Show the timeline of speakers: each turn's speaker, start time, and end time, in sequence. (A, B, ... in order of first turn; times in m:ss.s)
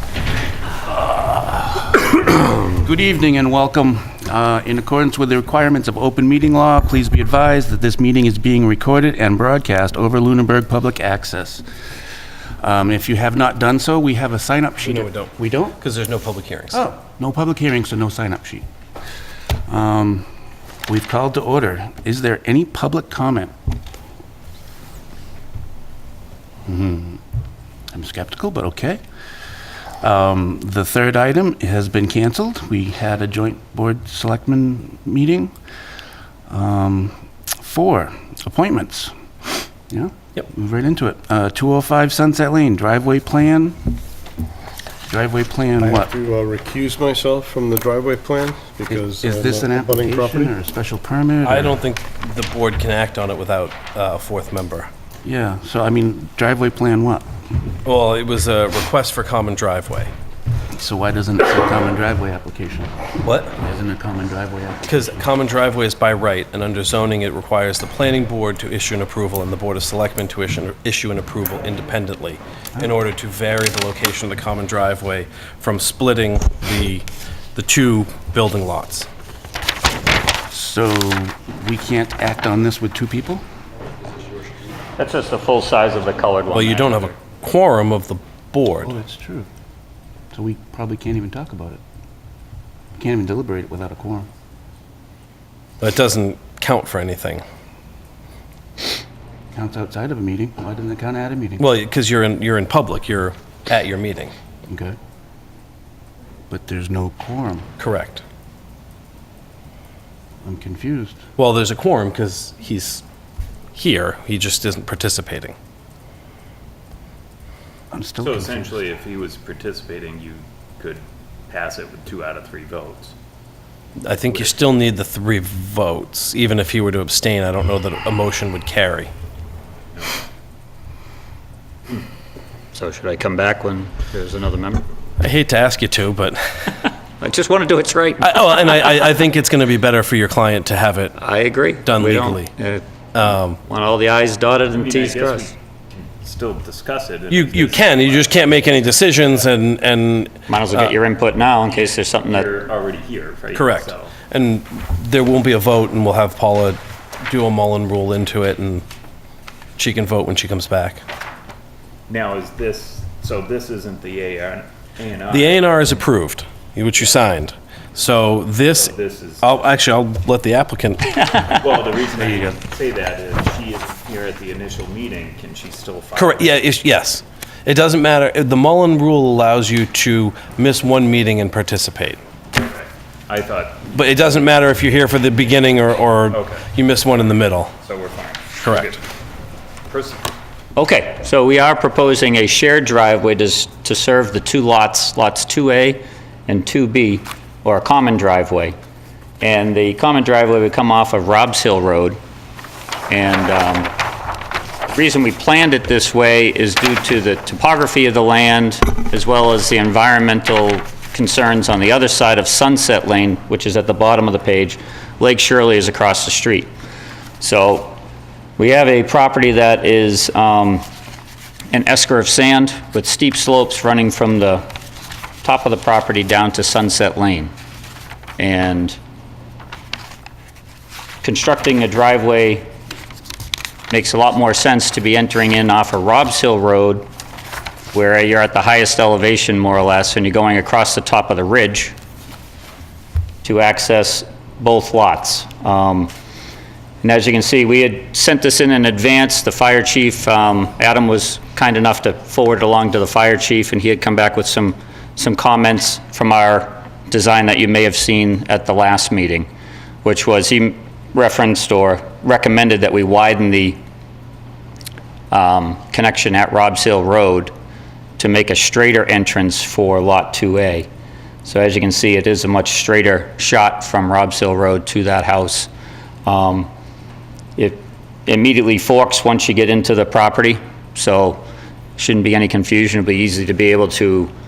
0:01.1-0:11.6 A
0:12.6-0:15.8 A
0:14.8-0:16.8 B
0:16.7-0:18.7 A
0:19.7-0:20.3 A
0:20.9-0:23.5 A
0:26.7-0:27.2 A
0:27.9-0:29.0 A
0:30.0-0:35.5 A
0:36.5-0:39.1 A
0:39.9-0:43.8 A
0:45.1-0:46.1 A
0:45.8-0:50.5 C
0:48.9-0:51.8 A
0:51.4-0:54.9 B
0:55.2-0:57.3 A
0:57.8-1:00.1 B
1:00.7-1:05.2 A
1:03.2-1:03.6 B
1:04.9-1:19.1 B
1:20.5-1:23.4 A
1:25.0-1:27.1 D
1:26.5-1:28.9 B
1:28.8-1:29.5 A
1:30.3-1:31.8 A
1:33.0-1:34.3 A
1:35.8-1:37.4 B
1:39.5-1:41.7 A
1:41.6-1:44.4 B
1:44.7-1:45.0 A
1:46.5-1:47.7 A
1:47.8-1:48.2 B
1:50.4-1:51.2 A
1:51.4-1:53.0 B
1:53.7-1:55.6 B
1:57.9-1:58.8 A
1:58.2-2:03.1 E
2:04.0-2:09.1 B
2:04.3-2:04.6 E
2:12.7-2:14.9 D
2:15.2-2:16.8 B
2:17.2-2:18.4 D
2:18.2-2:21.2 B
2:21.2-2:22.8 D
2:21.8-2:22.5 B
2:23.1-2:23.6 B
2:23.6-2:25.5 D
2:24.8-2:28.7 E
2:27.3-2:30.9 B
2:30.5-2:32.5 D
2:31.7-2:34.2 E
2:33.5-2:38.8 B
2:39.8-2:41.0 B
2:42.1-2:45.8 E
2:45.3-2:51.3 B
2:48.7-2:49.7 E
2:51.3-2:56.5 E
2:56.2-3:02.2 B
3:02.6-3:04.0 E
3:03.9-3:07.7 B
3:06.3-3:06.7 E
3:07.8-3:09.0 E
3:08.6-3:09.0 B
3:09.9-3:10.3 E
3:10.8-3:18.8 D
3:19.4-3:22.2 D
3:23.1-3:23.9 D
3:24.9-3:36.7 D
3:37.4-3:38.0 D
3:38.6-3:40.8 D
3:41.7-3:44.6 D
3:45.4-3:47.5 D
3:48.4-3:49.0 D
3:51.2-3:52.6 D
3:53.9-3:57.0 D
3:57.9-4:01.9 D
4:03.4-4:06.1 D
4:07.0-4:19.5 D
4:20.0-4:23.8 D
4:25.3-4:27.5 D
4:28.2-4:30.9 D
4:31.4-4:35.7 D
4:36.3-4:36.7 D
4:37.6-4:41.4 D
4:42.0-4:44.3 D